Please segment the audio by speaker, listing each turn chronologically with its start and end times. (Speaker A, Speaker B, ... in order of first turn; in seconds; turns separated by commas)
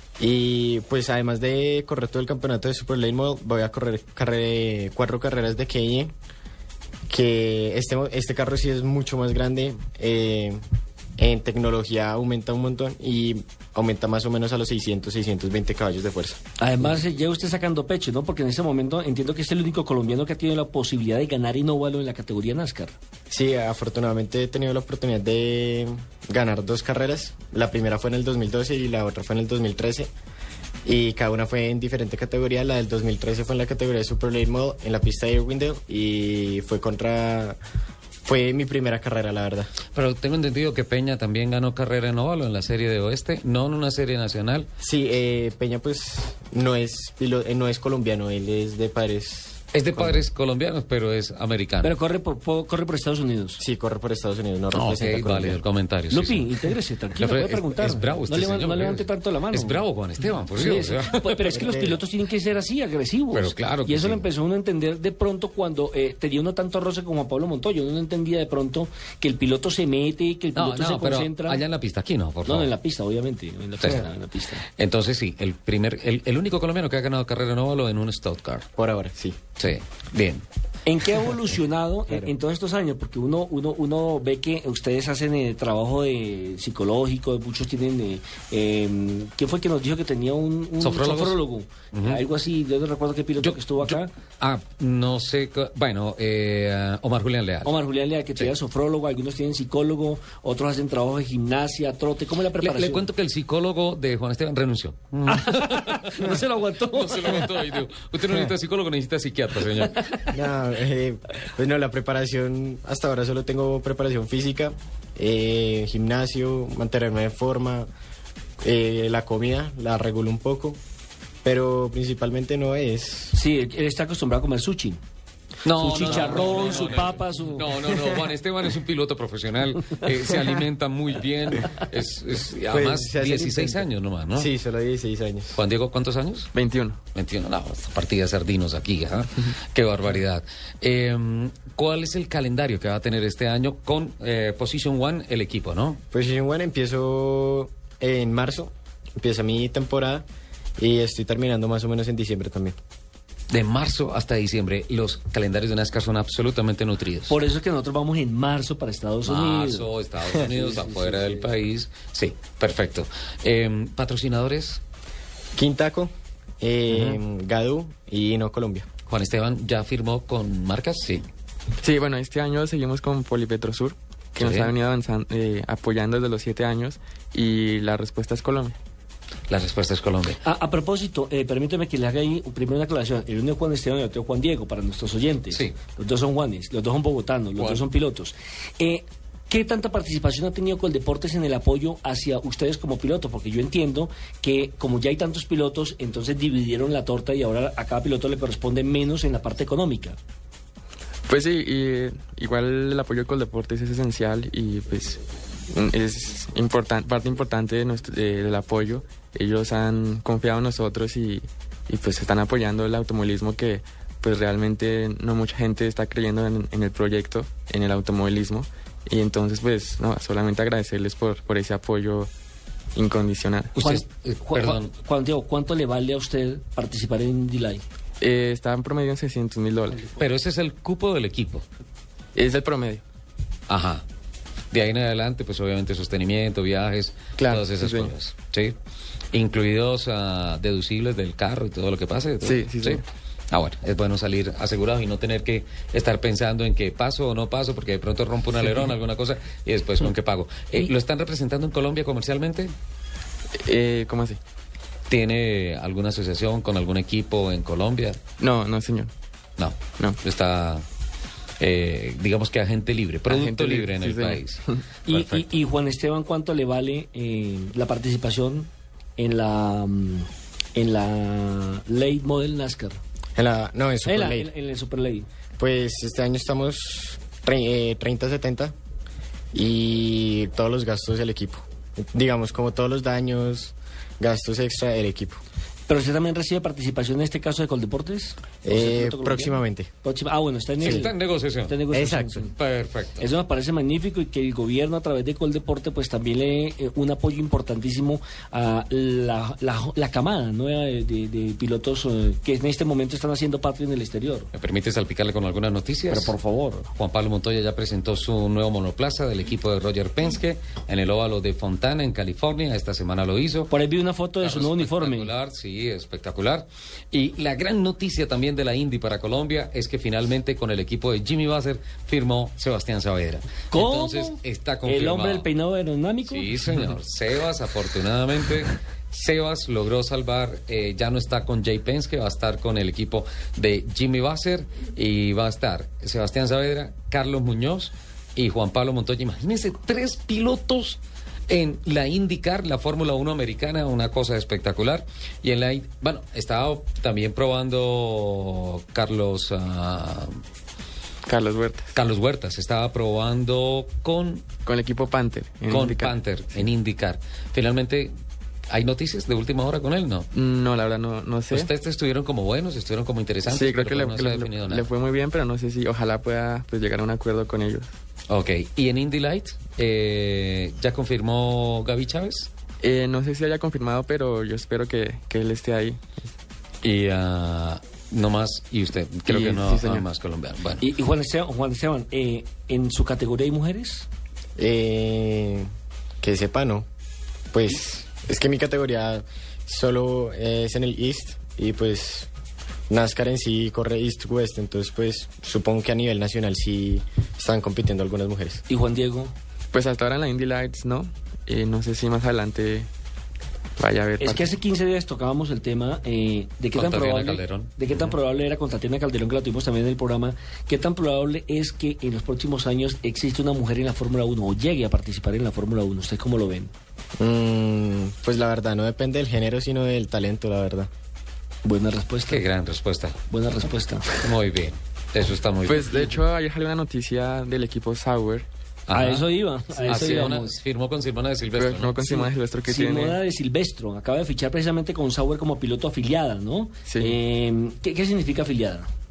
Speaker A: 0.2-6.1, Speaker A: 7.1-10.6, Speaker A: 11.2-16.4, Speaker B: 16.6-23.0, Speaker A: 23.3-30.1, Speaker A: 30.9-37.6, Speaker A: 38.2-39.7, Speaker C: 39.9-44.7, Speaker A: 44.8-50.3, Speaker C: 49.7-51.9, Speaker B: 51.8-53.6, Speaker A: 53.6-55.6, Speaker C: 54.7-61.6, Speaker B: 56.1-59.8, Speaker B: 60.5-71.6, Speaker A: 61.5-62.0, Speaker C: 63.3-64.3, Speaker C: 70.5-72.7, Speaker B: 72.5-74.6, Speaker C: 73.8-74.1, Speaker C: 74.7-78.7, Speaker A: 78.8-79.4, Speaker C: 79.6-80.5, Speaker B: 80.9-94.1, Speaker C: 90.8-91.4, Speaker C: 91.9-92.2, Speaker C: 93.4-97.7, Speaker B: 97.7-103.1, Speaker C: 102.6-110.3, Speaker B: 105.3-107.5, Speaker A: 110.3-117.9, Speaker A: 118.6-120.8, Speaker A: 121.4-123.3, Speaker B: 123.3-125.0, Speaker C: 125.6-134.5, Speaker B: 125.8-127.9, Speaker A: 132.7-135.6, Speaker C: 135.6-136.5, Speaker D: 136.5-137.0, Speaker C: 137.2-146.0, Speaker A: 146.1-150.2, Speaker A: 150.8-152.8, Speaker C: 153.5-157.4, Speaker B: 157.3-161.3, Speaker C: 159.2-164.8, Speaker A: 165.6-168.9, Speaker C: 166.9-167.2, Speaker C: 169.1-171.3, Speaker D: 171.8-178.8, Speaker C: 174.4-174.7, Speaker C: 179.5-180.4, Speaker B: 180.4-200.2, Speaker C: 185.5-185.8, Speaker C: 187.6-187.8, Speaker D: 201.3-222.3, Speaker D: 222.9-223.8, Speaker C: 223.8-224.9, Speaker B: 223.8-227.8, Speaker D: 228.2-230.0, Speaker C: 230.2-231.7, Speaker D: 232.3-233.0, Speaker C: 233.7-234.1, Speaker C: 234.7-238.8, Speaker D: 237.4-238.1, Speaker C: 239.3-252.7, Speaker D: 242.4-243.0, Speaker D: 253.6-254.4, Speaker C: 255.1-258.2, Speaker D: 258.4-259.1, Speaker C: 259.6-260.9, Speaker C: 261.6-265.6, Speaker D: 263.3-264.8, Speaker B: 265.1-273.0, Speaker A: 273.4-274.5, Speaker B: 274.1-275.3, Speaker A: 275.6-278.7, Speaker A: 279.5-285.4, Speaker B: 285.9-291.1, Speaker A: 288.6-289.9, Speaker C: 290.8-291.8, Speaker B: 291.7-292.5, Speaker A: 291.9-292.4, Speaker C: 292.5-293.3, Speaker B: 293.2-304.5, Speaker C: 304.5-306.4, Speaker B: 306.1-306.9, Speaker C: 306.9-313.7, Speaker B: 313.7-315.3, Speaker C: 314.4-325.5, Speaker B: 323.7-326.5, Speaker C: 326.2-350.4, Speaker D: 351.3-351.9, Speaker C: 351.9-354.4, Speaker D: 354.7-356.2, Speaker C: 355.7-358.1, Speaker C: 358.7-360.3, Speaker D: 360.3-361.7, Speaker C: 361.5-364.9, Speaker D: 363.4-367.9, Speaker C: 368.3-372.5, Speaker D: 372.8-376.0, Speaker C: 376.8-380.9, Speaker D: 379.3-380.1, Speaker B: 380.8-384.1, Speaker A: 384.6-385.7, Speaker A: 386.2-386.9, Speaker A: 387.5-392.3, Speaker A: 392.9-398.6, Speaker B: 398.7-399.4, Speaker D: 399.7-402.9, Speaker D: 403.8-404.6, Speaker B: 404.2-416.7, Speaker C: 406.7-408.0, Speaker A: 417.2-420.9, Speaker B: 421.6-422.4, Speaker C: 422.3-423.2, Speaker B: 423.3-424.2, Speaker C: 424.2-425.9, Speaker D: 425.7-428.5, Speaker B: 425.9-426.1, Speaker C: 428.9-429.3, Speaker B: 428.9-430.6, Speaker D: 429.8-430.4, Speaker C: 429.9-431.9, Speaker D: 431.5-433.2, Speaker B: 432.0-438.9, Speaker D: 436.9-437.2